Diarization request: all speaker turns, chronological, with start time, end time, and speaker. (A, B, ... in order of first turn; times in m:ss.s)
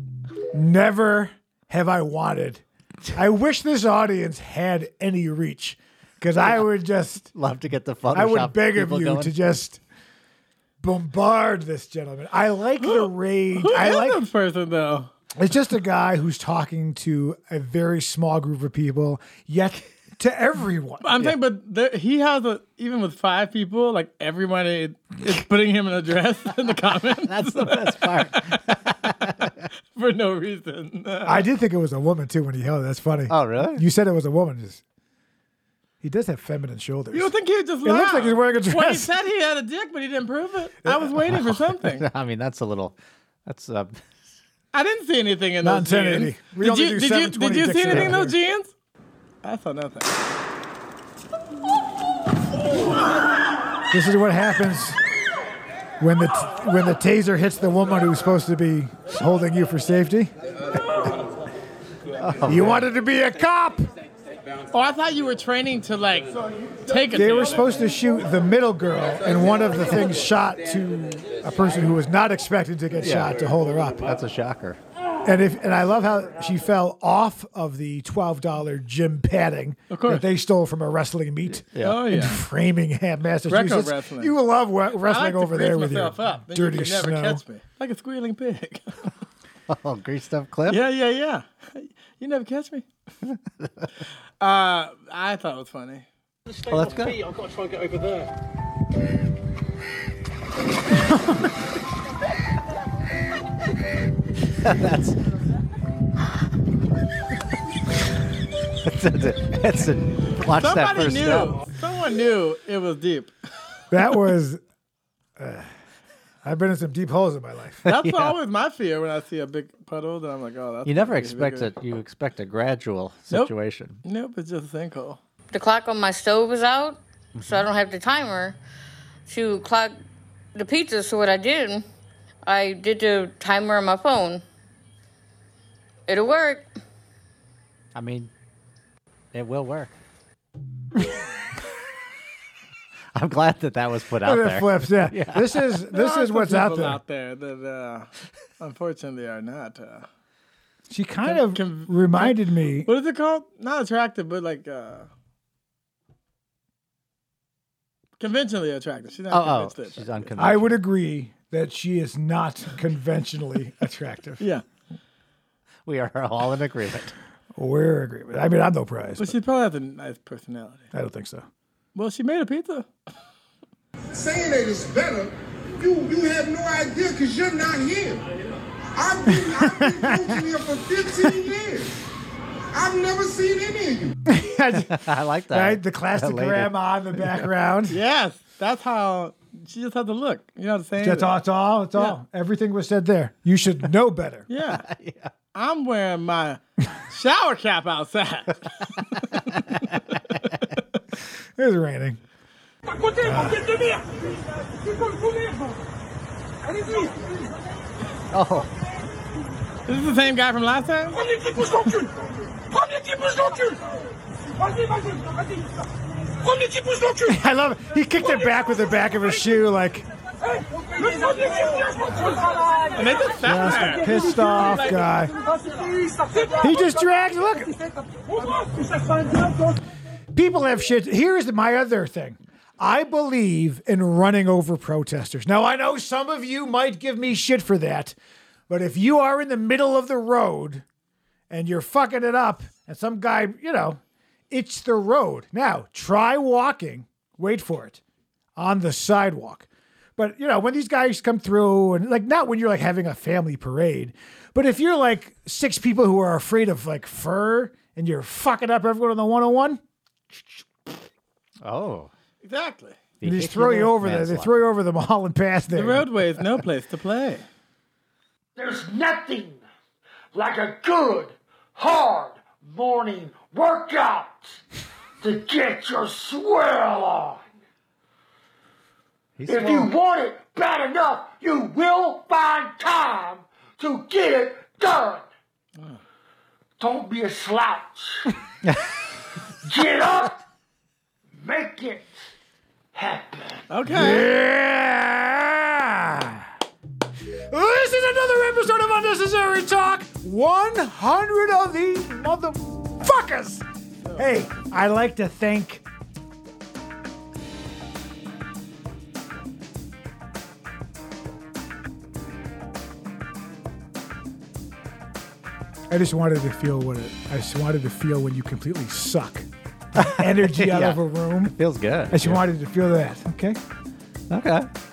0:00.5-0:07.3 A
0:07.3-0:09.4 B
0:08.1-0:09.8 A
0:10.8-0:14.2 A
0:12.8-0:15.1 C
0:15.4-0:21.1 A
0:21.0-0:28.6 C
0:27.2-0:29.5 B
0:30.0-0:31.4 C
0:31.2-0:34.8 A
0:33.3-0:33.8 B
0:36.0-0:37.3 A
0:37.1-0:42.1 C
0:37.8-0:39.1 A
0:41.2-0:44.0 B
0:44.7-0:48.7 C
0:45.6-0:48.4 A
0:47.8-0:48.2 B
0:49.4-0:50.1 C
0:53.9-0:55.0 A
0:56.0-1:01.1 A
1:02.2-1:02.9 B
1:02.4-1:03.9 A
1:04.7-1:06.4 C
1:06.9-1:07.7 C
1:07.1-1:14.0 A
1:13.0-1:13.4 B
1:13.9-1:14.8 B
1:15.2-1:27.4 A
1:19.9-1:20.2 C
1:21.7-1:22.0 B
1:21.8-1:22.4 C
1:23.5-1:24.3 C
1:25.0-1:29.1 C
1:29.7-1:30.9 B
1:30.7-1:32.8 C
1:33.2-1:33.9 B
1:34.4-1:36.1 C
1:36.5-1:37.6 B
1:41.0-1:41.5 B
1:44.6-1:45.2 B
1:48.8-1:51.6 B
1:50.5-1:53.3 C
1:53.9-1:54.6 A
1:55.4-1:55.7 A
1:56.4-1:57.8 A
1:57.8-1:58.4 B
1:57.9-2:01.7 C
2:00.8-2:04.0 B
2:04.0-2:05.2 C
2:05.5-2:08.6 D
2:07.4-2:07.7 B
2:09.3-2:10.0 D
2:10.6-2:11.8 D
2:12.5-2:14.4 D
2:16.1-2:16.7 D
2:17.9-2:18.3 B
2:19.3-2:19.9 B
2:23.1-2:25.6 B
2:24.2-2:27.0 A
2:25.9-2:28.1 C
2:28.6-2:30.1 C
2:30.9-2:32.9 A
2:31.2-2:35.1 C
2:38.2-2:40.3 C
2:39.3-2:40.8 B
2:40.4-2:44.4 A
2:45.9-2:47.1 B
2:47.6-2:49.4 A
2:49.2-2:50.9 C
2:50.9-2:51.5 A
2:52.0-2:52.9 C
2:54.1-2:58.3 E
2:59.0-3:02.0 E
2:59.4-3:00.4 A
3:02.7-3:04.2 E
3:04.3-3:08.0 A
3:04.7-3:07.4 B
3:07.9-3:11.4 C
3:11.0-3:14.5 A
3:14.5-3:14.9 C
3:14.9-3:15.3 B
3:15.5-3:20.0 C
3:21.6-3:22.2 A
3:23.2-3:23.9 A
3:28.3-3:28.7 B
3:29.9-3:31.4 C
3:31.8-3:32.0 A
3:37.1-3:40.1 A
3:42.9-3:44.2 C
3:43.4-3:45.4 A
3:46.5-3:47.8 A
3:50.3-3:58.2 A
3:58.7-4:00.8 A
4:01.5-4:08.0 A
4:08.6-4:19.8 A
4:20.3-4:20.6 A
4:21.6-4:22.1 B
4:22.4-4:23.0 C
4:23.2-4:24.6 B
4:23.2-4:26.1 A
4:25.7-4:27.4 C
4:28.6-4:29.6 F
4:30.3-4:34.6 F
4:35.2-4:37.4 F
4:39.4-4:39.9 B
4:39.4-4:45.2 F
4:46.8-4:48.3 F
4:49.6-4:50.4 F
4:51.4-4:52.2 F
4:52.9-4:53.6 F
4:53.7-4:54.3 C
4:53.9-4:56.5 A
4:57.5-5:03.6 A
5:04.0-5:04.5 C
5:04.2-5:05.8 A
5:15.9-5:19.5 A
5:20.0-5:22.4 B
5:20.0-5:21.6 A
5:22.1-5:23.6 A
5:24.3-5:24.7 B